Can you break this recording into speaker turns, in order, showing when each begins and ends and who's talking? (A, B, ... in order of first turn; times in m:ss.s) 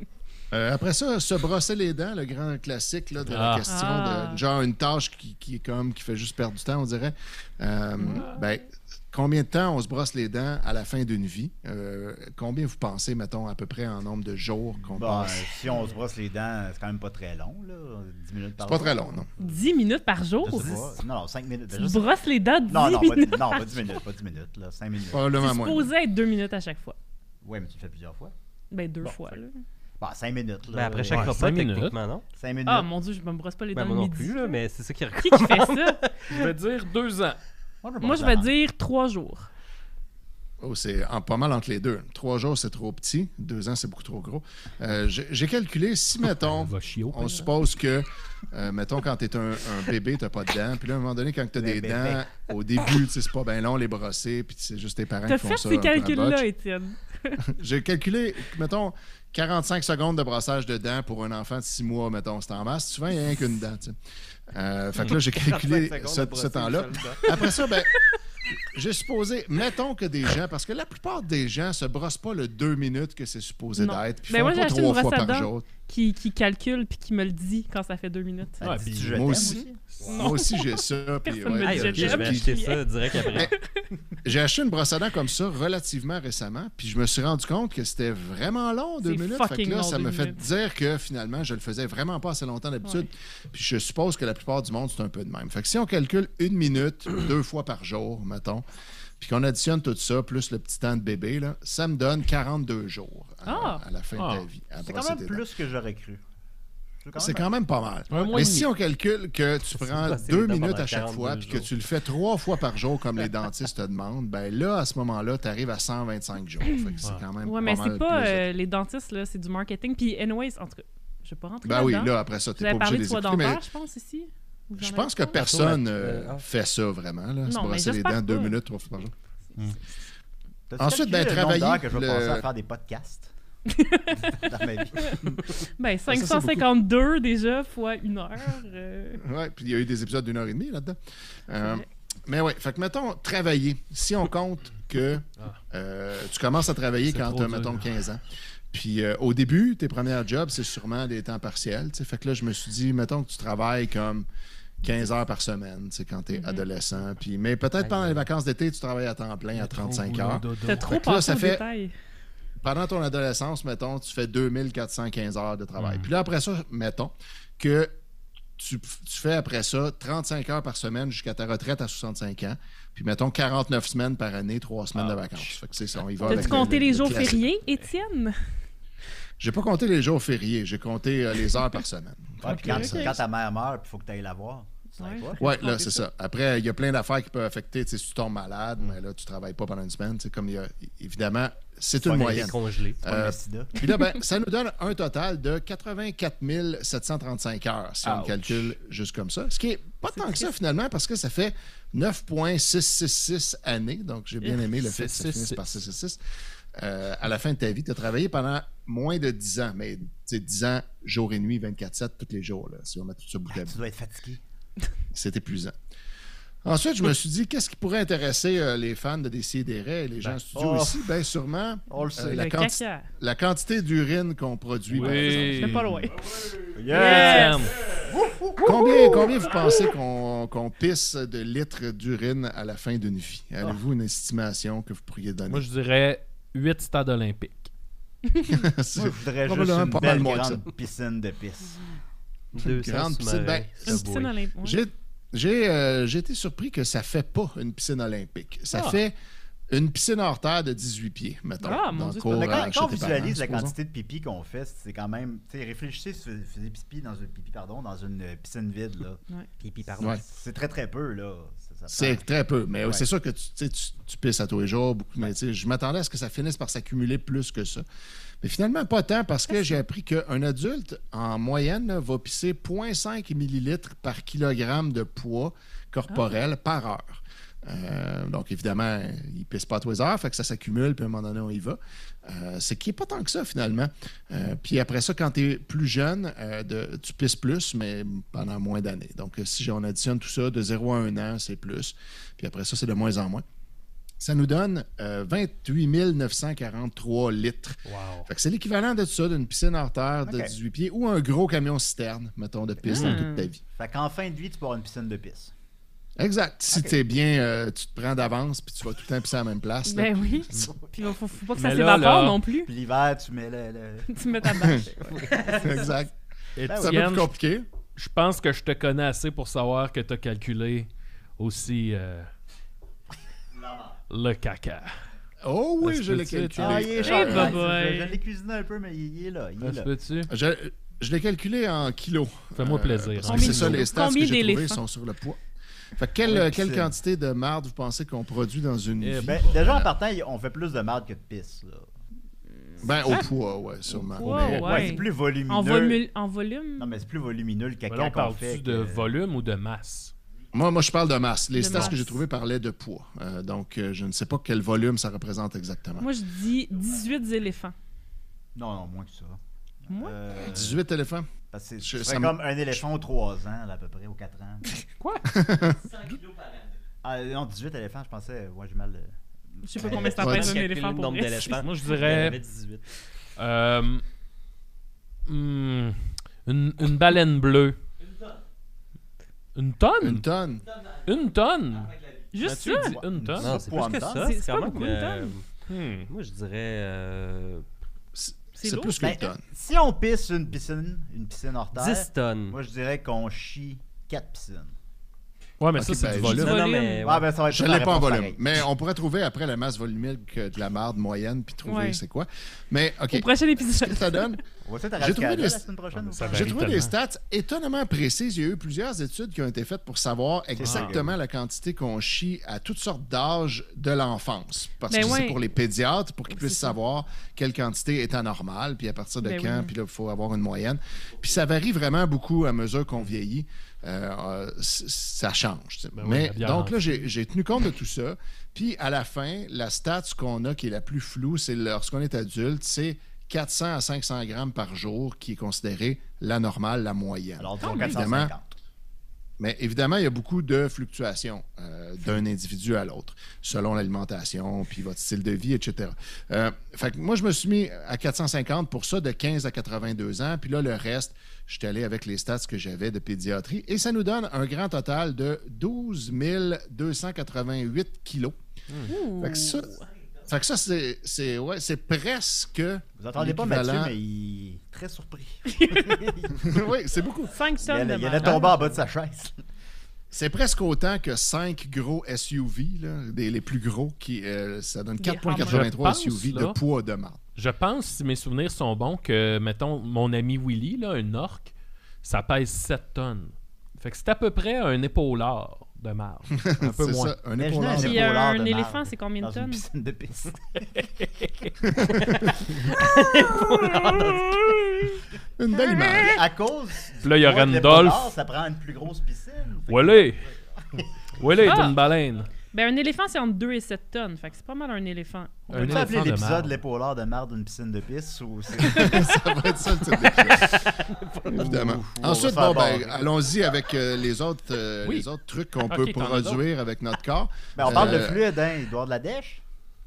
0:00.5-0:15.5 A
0:03.3-0:03.7 B
0:03.7-0:04.4 C
0:08.0-0:08.3 C
0:14.9-0:19.5 D
0:18.6-0:19.3 A
0:19.4-0:21.0 C
0:20.4-0:22.1 D
0:21.7-0:23.9 C
0:22.7-0:25.3 D
0:25.1-0:25.9 A
0:25.4-0:27.0 C
0:27.4-0:28.3 D
0:28.7-0:29.6 C
0:29.0-0:29.3 D
0:30.0-0:31.5 D
0:30.7-0:32.2 E
0:31.1-0:31.9 B
0:32.4-0:32.9 D
0:32.6-0:34.6 C
0:33.7-0:36.3 E
0:35.2-0:36.0 C
0:36.3-0:37.4 B
0:37.8-0:38.5 D
0:38.0-0:39.5 C
0:40.6-0:56.4 A
0:46.3-0:47.5 B
0:51.6-0:52.3 D
0:55.2-0:57.4 C
0:57.4-1:04.0 A
1:04.5-1:15.7 A
1:05.1-1:07.2 E
1:07.5-1:08.2 C
1:13.8-1:18.7 C
1:18.6-1:19.8 D
1:18.6-1:19.2 B
1:19.0-1:22.6 A
1:19.4-1:23.8 C
1:19.9-1:20.4 B
1:21.6-1:23.5 E
1:23.2-1:23.5 A
1:24.2-1:38.6 A
1:29.0-1:30.4 C
1:39.2-1:45.4 A
1:43.4-1:43.8 C
1:44.2-1:44.4 B
1:44.8-1:46.2 D
1:47.0-1:47.5 D
1:47.2-1:58.5 A
1:48.1-1:48.7 B
1:49.8-1:51.7 E
1:57.4-2:05.4 C
2:01.6-2:03.6 A
2:04.8-2:09.1 A
2:05.3-2:06.4 E
2:07.5-2:08.6 C
2:10.7-2:13.3 D
2:10.8-2:12.4 A
2:13.7-2:15.2 C
2:14.1-2:15.3 D
2:15.8-2:19.2 C
2:16.1-2:16.6 A
2:19.2-2:34.2 A
2:27.1-2:27.9 B
2:34.8-2:41.6 A
2:36.3-2:36.7 C
2:39.5-2:41.0 B
2:40.6-2:41.9 C
2:42.6-2:47.9 A
2:45.8-2:46.1 B
2:48.6-2:57.4 A
2:56.2-2:58.5 C
2:59.4-3:03.2 A
3:02.4-3:05.6 D
3:02.5-3:03.2 C
3:05.0-3:06.0 C
3:05.4-3:26.2 A
3:12.0-3:13.8 D
3:12.0-3:13.0 E
3:18.0-3:18.7 B
3:20.1-3:20.5 C
3:24.5-3:25.8 B
3:26.8-3:33.8 A
3:33.5-3:34.4 D
3:35.1-3:35.7 A
3:36.6-3:46.0 A
3:40.2-3:41.1 D
3:41.9-3:42.5 D
3:42.0-3:43.1 C
3:44.9-3:45.9 B
3:45.1-3:46.3 C
3:46.7-3:48.8 D
3:46.9-3:47.7 C
3:46.9-3:48.0 B
3:48.6-3:55.6 A
3:55.4-3:57.7 B
3:58.4-4:00.6 A
3:59.0-4:01.9 D
4:02.5-4:04.0 E
4:02.6-4:09.1 A
4:03.8-4:04.8 C
4:08.7-4:09.0 B
4:09.7-4:13.7 A
4:11.6-4:12.6 C
4:12.3-4:23.1 D
4:21.9-4:27.8 A
4:28.4-4:53.4 A
4:29.5-4:29.8 C
4:54.2-5:03.6 A
4:57.8-4:58.3 B
5:00.2-5:00.6 D
5:02.9-5:03.3 B
5:02.9-5:03.5 C
5:03.7-5:05.5 D
5:06.2-5:10.7 A
5:06.7-5:07.0 D
5:09.8-5:12.7 C
5:11.5-5:12.4 B
5:12.6-5:16.0 D
5:14.1-5:15.6 C
5:14.4-5:16.1 A
5:16.6-5:17.3 B
5:16.6-5:17.0 D
5:16.7-5:17.7 A
5:17.9-5:22.3 B
5:23.5-5:23.9 D
5:24.1-5:24.9 B
5:25.4-5:27.6 A
5:25.8-5:26.9 B
5:26.5-5:29.9 D
5:27.0-5:28.2 C
5:29.6-5:30.3 B
5:30.3-5:35.4 A
5:32.6-5:33.9 B
5:33.3-5:34.8 C
5:36.0-5:39.9 A
5:36.2-5:37.0 D
5:39.0-5:39.6 B
5:39.2-5:41.9 D
5:42.8-5:44.9 A
5:44.2-5:45.0 B
5:44.2-5:47.0 C
5:44.5-5:46.0 D
5:46.8-5:49.1 D
5:47.9-5:50.1 B
5:50.5-5:56.1 A
5:51.5-5:52.2 C
5:56.0-5:57.7 C
5:58.5-6:00.8 D
5:59.9-6:00.2 C
6:00.4-6:01.3 A
6:01.5-6:04.7 D
6:01.8-6:02.4 A
6:05.0-6:05.3 B
6:05.3-6:05.9 A
6:07.0-6:10.4 D
6:09.6-6:11.9 C
6:09.8-6:12.8 E
6:10.2-6:10.5 A
6:11.5-6:12.4 B
6:13.4-6:14.0 B
6:15.2-6:17.8 B
6:19.5-6:20.3 B
6:20.0-6:20.6 A
6:21.0-6:23.6 B
6:22.3-6:23.0 C
6:22.6-6:24.3 D
6:23.4-6:27.6 E
6:23.8-6:25.3 C
6:25.7-6:26.1 B
6:28.1-6:29.4 A
6:28.6-6:29.2 C
6:29.0-6:34.7 D
6:31.7-6:32.6 E
6:35.6-6:37.0 B
6:35.7-6:36.6 A
6:36.2-6:37.3 E
6:36.4-6:37.0 C
6:37.0-6:38.4 D
6:37.5-6:44.4 A
6:41.6-6:42.0 C
6:43.1-6:44.4 C
6:44.6-6:46.6 D
6:45.0-6:45.6 A
6:46.0-6:46.9 B
6:46.2-7:18.3 A
6:50.5-6:51.2 D
6:50.6-6:51.0 B
6:54.9-6:55.4 C
6:56.3-6:56.7 C
6:59.2-6:59.7 C
7:06.0-7:07.0 B
7:17.4-7:18.5 D
7:19.4-7:38.4 A
7:38.8-7:39.9 C
7:39.2-7:39.7 A
7:40.3-7:43.9 A
7:43.0-7:46.6 D
7:45.5-7:46.0 C
7:46.4-7:47.4 A
7:47.3-7:48.5 C
7:47.6-7:49.4 D
7:50.1-7:57.2 A
7:55.0-7:55.7 C
7:55.3-7:56.6 B
7:57.4-8:07.2 B
8:06.4-8:08.0 A
8:07.4-8:11.4 D
8:07.8-8:09.6 C
8:10.8-8:11.5 B
8:11.7-8:12.4 A
8:12.0-8:12.9 D
8:12.8-8:13.9 E
8:13.6-8:14.7 D
8:13.6-8:14.9 B
8:15.4-8:16.2 A
8:15.5-8:16.2 C
8:16.0-8:20.8 D
8:17.0-8:18.1 B
8:19.7-8:20.3 B
8:21.2-8:22.3 B
8:21.4-8:21.8 C
8:22.5-8:26.1 C
8:25.5-8:26.5 B
8:25.5-8:29.2 D
8:28.6-8:38.2 A
8:30.4-8:30.7 D
8:31.3-8:33.1 D
8:35.6-8:36.4 B
8:37.6-8:39.4 D